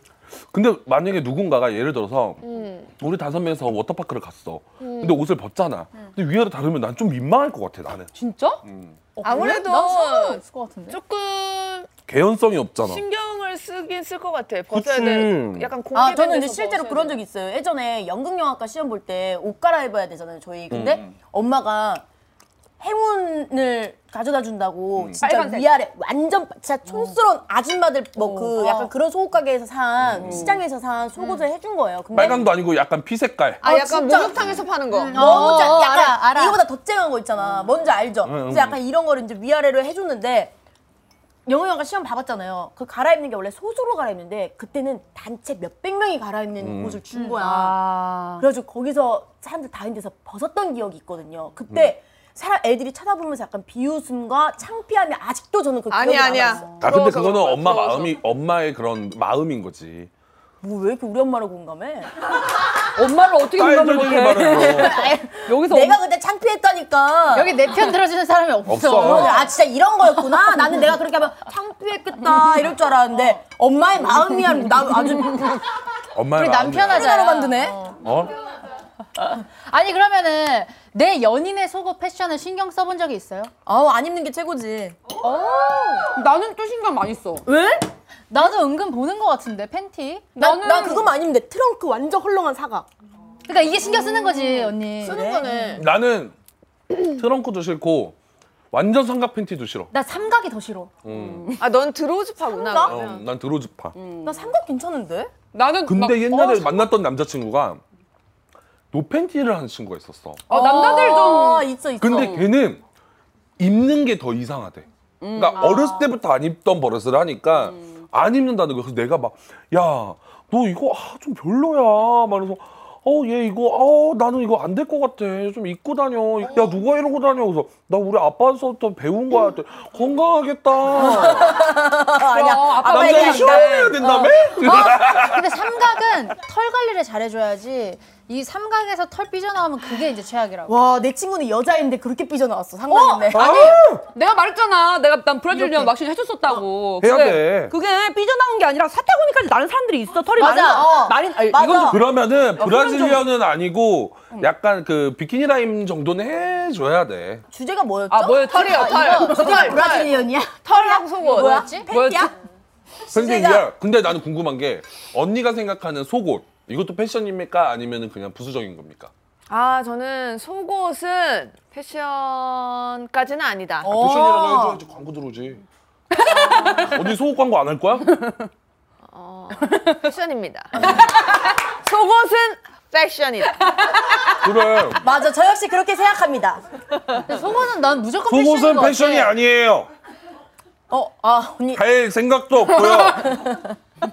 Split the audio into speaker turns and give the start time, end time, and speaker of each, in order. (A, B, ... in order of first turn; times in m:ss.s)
0:00.5-0:02.4 A
0:02.4-0:02.9 B
0:03.0-0:08.1 A
0:04.8-0:05.2 B
0:08.1-0:08.6 C
0:08.6-0:09.0 A
0:09.2-0:11.0 D
0:09.2-0:11.9 B
0:12.1-0:13.0 A
0:12.8-0:17.2 B
0:14.7-0:15.7 A
0:15.9-0:22.0 E
0:20.7-0:21.1 A
0:22.8-0:32.5 E
0:25.0-0:25.2 A
0:25.2-0:25.7 C
0:28.2-0:28.9 D
0:30.0-0:30.6 A
0:32.1-0:33.6 A
0:33.6-0:35.7 B
0:33.6-0:40.5 E
0:34.9-0:36.6 D
0:38.2-0:38.8 A
0:41.4-0:56.7 E
0:46.6-0:47.0 A
0:47.2-0:48.4 C
0:55.9-0:58.2 B
0:56.8-1:00.1 A
1:00.6-1:02.1 E
1:02.9-1:06.0 C
1:03.6-1:05.0 A
1:04.5-1:07.6 E
1:05.0-1:05.2 D
1:07.3-1:09.5 D
1:08.6-1:09.4 A
1:09.0-1:15.6 E
1:16.1-1:17.2 A
1:16.3-1:18.0 D
1:16.8-1:17.8 E
1:18.0-1:18.4 A
1:19.2-1:23.5 D
1:23.6-1:25.0 E
1:25.2-1:26.1 D
1:26.0-1:27.4 C
1:27.4-1:27.9 E
1:28.3-1:30.4 D
1:30.3-1:31.1 C
1:30.4-1:32.9 E
1:33.5-1:35.7 D
1:34.4-1:34.7 C
1:35.0-1:35.8 E
1:35.8-1:36.3 A
1:36.9-1:38.2 A
1:38.7-1:39.9 A
1:39.9-1:40.9 D
1:41.0-1:41.5 A
1:41.1-1:41.6 C
1:41.6-1:43.2 B
1:42.4-1:43.0 E
1:42.8-1:43.9 A
1:43.9-1:44.4 C
1:44.2-1:45.3 E
1:45.5-1:46.9 C
1:45.8-1:47.8 A
1:48.9-1:50.4 A
1:50.5-1:52.5 C
1:50.5-1:52.4 E
1:52.0-1:52.8 A
1:53.6-2:11.6 A
1:55.2-1:56.1 C
1:57.6-1:57.9 C
2:10.9-2:14.1 E
2:12.3-2:14.4 C
2:12.8-2:15.7 A
2:14.0-2:20.7 D
2:20.7-2:23.8 E
2:22.9-2:32.0 C
2:23.3-2:24.0 A
2:25.5-2:25.9 D
2:27.0-2:27.7 A
2:30.4-2:32.0 E
2:30.4-2:31.0 D
2:31.8-2:37.4 A
2:32.6-2:33.1 C
2:32.6-2:33.2 E
2:37.5-2:42.3 E
2:38.1-2:39.5 C
2:38.5-2:41.7 B
2:38.9-2:39.5 D
2:41.3-2:41.9 D
2:41.9-2:42.3 C
2:43.0-2:43.7 E
2:43.1-2:49.1 A
2:49.5-2:53.9 B
2:53.8-2:54.8 E
2:53.9-2:55.6 A
2:56.1-2:57.0 C
2:56.6-2:58.1 A
2:58.1-2:58.5 C
2:59.1-3:00.7 B
3:00.8-3:01.2 C
3:01.8-3:03.6 B
3:04.3-3:05.0 A
3:05.0-3:06.6 E
3:07.2-3:09.3 D
3:08.3-3:09.9 A
3:10.9-3:11.8 E
3:11.7-3:13.4 A
3:12.7-3:13.8 E